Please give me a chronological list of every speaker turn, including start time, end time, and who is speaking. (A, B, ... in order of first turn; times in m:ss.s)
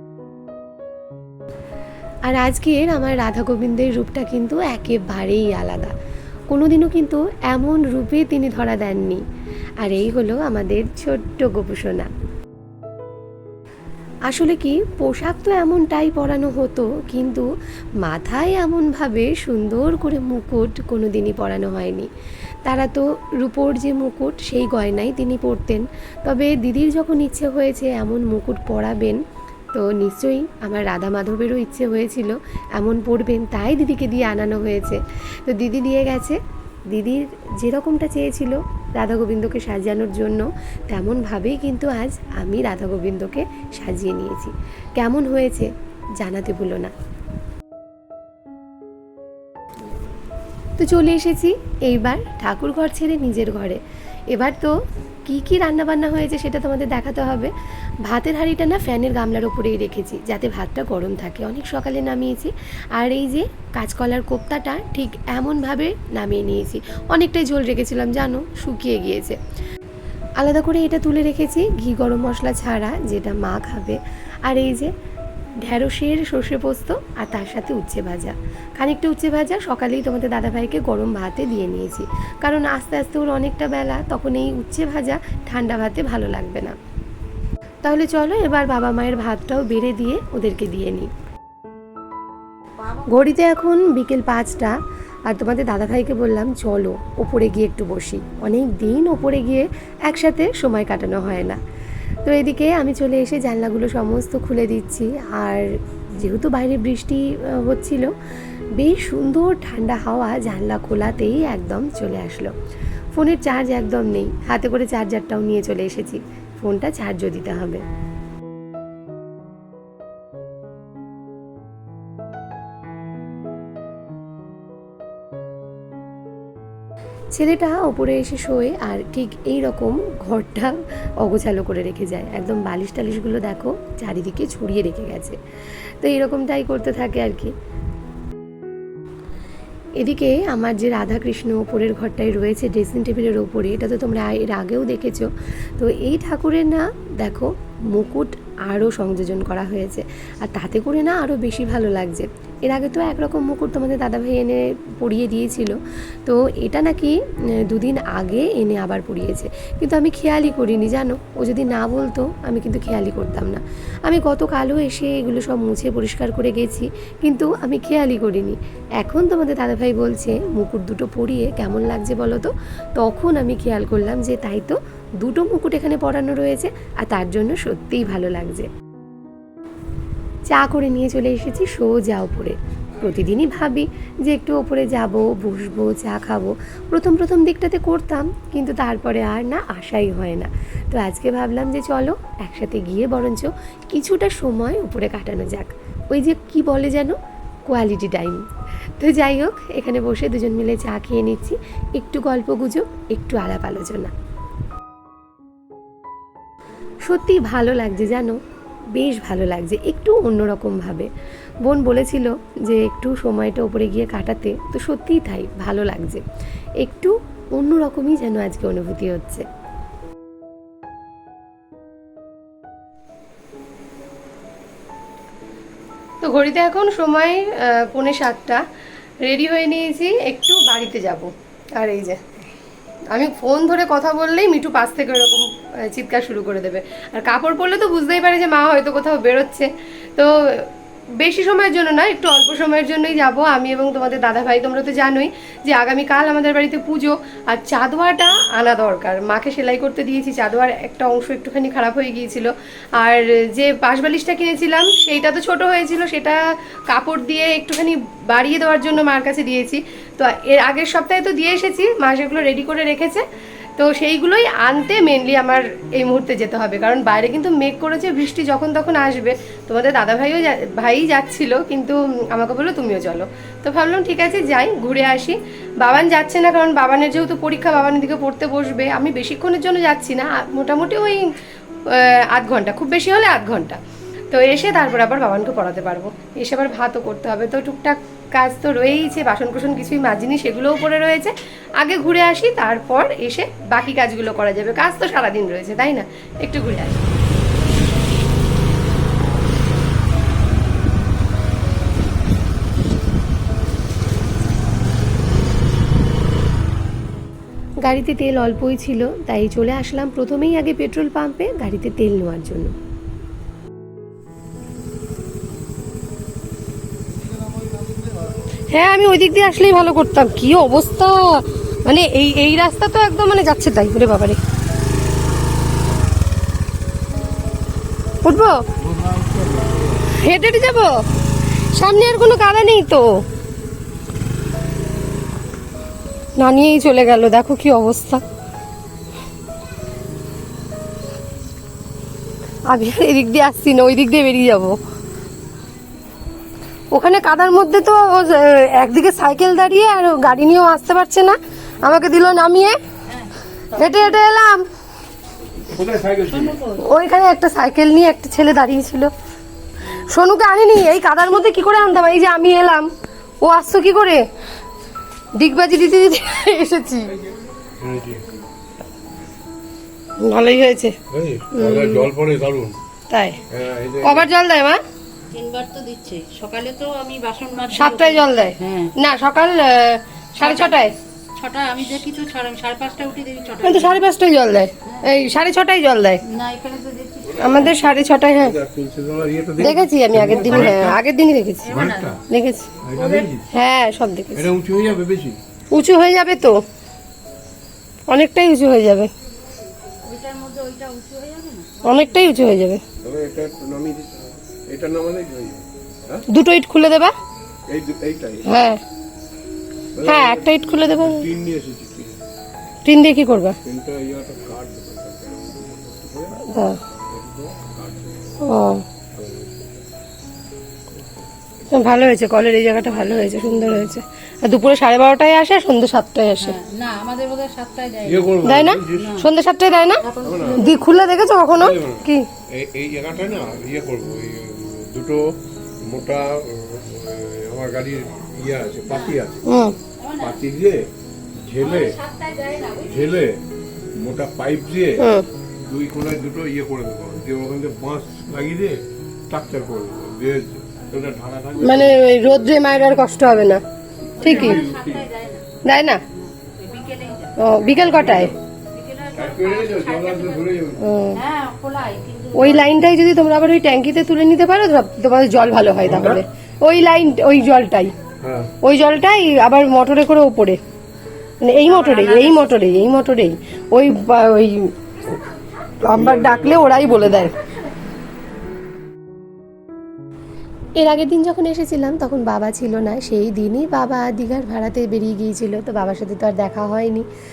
0:02.2-0:05.9 A
0:06.5-0:09.2 A
0:09.8-0:12.1 A
0:14.3-0:17.5 A
0:18.0-0:22.1 A
0:22.6-0:29.2 A
0:29.7-0:46.9 A
0:50.8-0:53.8 A
0:54.3-0:54.7 A
0:55.2-0:57.5 A
0:58.1-1:09.4 A
1:10.4-1:14.9 A
1:15.6-1:26.8 A
1:27.8-1:31.1 A
1:32.9-1:41.6 A
1:42.2-1:48.1 A
1:48.8-1:52.5 A
1:53.2-1:57.8 A
2:07.4-2:15.4 A
2:16.0-2:17.5 A
2:20.0-2:58.7 A
3:00.5-3:17.2 A
3:17.7-3:18.4 A
3:19.0-3:24.1 A
3:27.0-3:28.4 A
3:28.9-3:31.1 A
3:31.6-3:36.2 A
3:36.8-3:39.4 A
3:46.2-3:48.6 A
3:49.2-3:52.2 A
3:53.1-4:23.2 A
4:23.8-4:41.2 A
4:41.9-4:43.8 A
4:44.3-4:57.0 A
5:07.8-5:12.7 A
5:18.7-5:24.4 A
5:28.2-5:28.6 A
5:28.8-5:30.2 B
5:30.2-5:30.9 A
5:31.7-5:33.1 A
5:36.4-5:38.2 A
5:42.7-5:44.8 A
5:46.9-5:52.8 A
5:53.1-5:54.1 C
5:53.7-5:54.7 A
5:55.6-5:56.6 B
5:56.3-5:56.8 C
5:56.8-5:59.1 A
5:59.8-6:02.9 A
6:03.4-6:04.2 A
6:05.4-6:07.1 A
6:07.8-6:08.2 B
6:10.2-6:11.0 A
6:11.1-6:12.8 B
6:11.5-6:12.1 A
6:13.1-6:13.4 A
6:13.5-6:14.3 B
6:14.0-6:14.8 A
6:15.3-6:18.9 C
6:17.7-6:20.9 A
6:20.4-6:24.0 C
6:23.6-6:26.2 A
6:24.8-6:25.1 C
6:26.2-6:27.8 C
6:27.4-6:28.5 A
6:28.4-6:31.0 B
6:29.6-6:31.7 A
6:30.6-6:30.8 C
6:31.6-6:32.1 C
6:31.6-6:32.2 B
6:32.3-6:34.5 A
6:32.8-6:33.5 B
6:34.3-6:35.4 B
6:35.7-6:36.6 A
6:38.1-6:39.1 A
6:40.0-6:42.3 C
6:41.8-6:42.8 A
6:43.0-6:46.2 B
6:46.3-6:47.1 A
6:47.7-6:48.5 B
6:48.4-6:48.8 A
6:49.9-6:52.2 B
6:50.0-6:51.2 A
6:52.8-6:53.6 A
6:53.6-6:58.6 B
6:56.4-6:56.8 A
6:58.4-6:58.8 A
6:59.1-6:59.7 B
7:00.9-7:01.2 B
7:01.7-7:06.6 A
7:03.2-7:03.8 C
7:06.4-7:09.3 C
7:08.0-7:09.2 B
7:08.4-7:12.3 A
7:10.0-7:10.8 C
7:10.2-7:10.8 B
7:11.5-7:19.6 B
7:18.9-7:19.2 C
7:19.4-7:19.8 A
7:20.0-7:20.4 C
7:20.2-7:20.9 B
7:21.4-7:22.0 B
7:21.6-7:23.2 C
7:22.8-7:23.4 B
7:24.0-7:25.0 B
7:25.0-7:25.2 A
7:25.6-7:32.0 B
7:31.6-7:33.6 A
7:34.1-7:35.0 B
7:34.2-7:35.4 C
7:34.2-7:34.6 A
7:35.6-7:36.0 A
7:36.1-7:37.9 C
7:37.4-7:38.3 A
7:37.7-7:38.4 B
7:38.7-7:42.8 C
7:39.1-7:40.8 B
7:40.8-7:41.2 A
7:42.3-7:47.9 A
7:45.8-7:46.2 B
7:48.2-7:48.5 B
7:48.6-7:50.6 A
7:51.4-7:54.7 A
7:51.6-7:52.6 C
7:55.8-7:57.3 A
7:55.8-7:57.3 B
8:00.8-8:07.1 A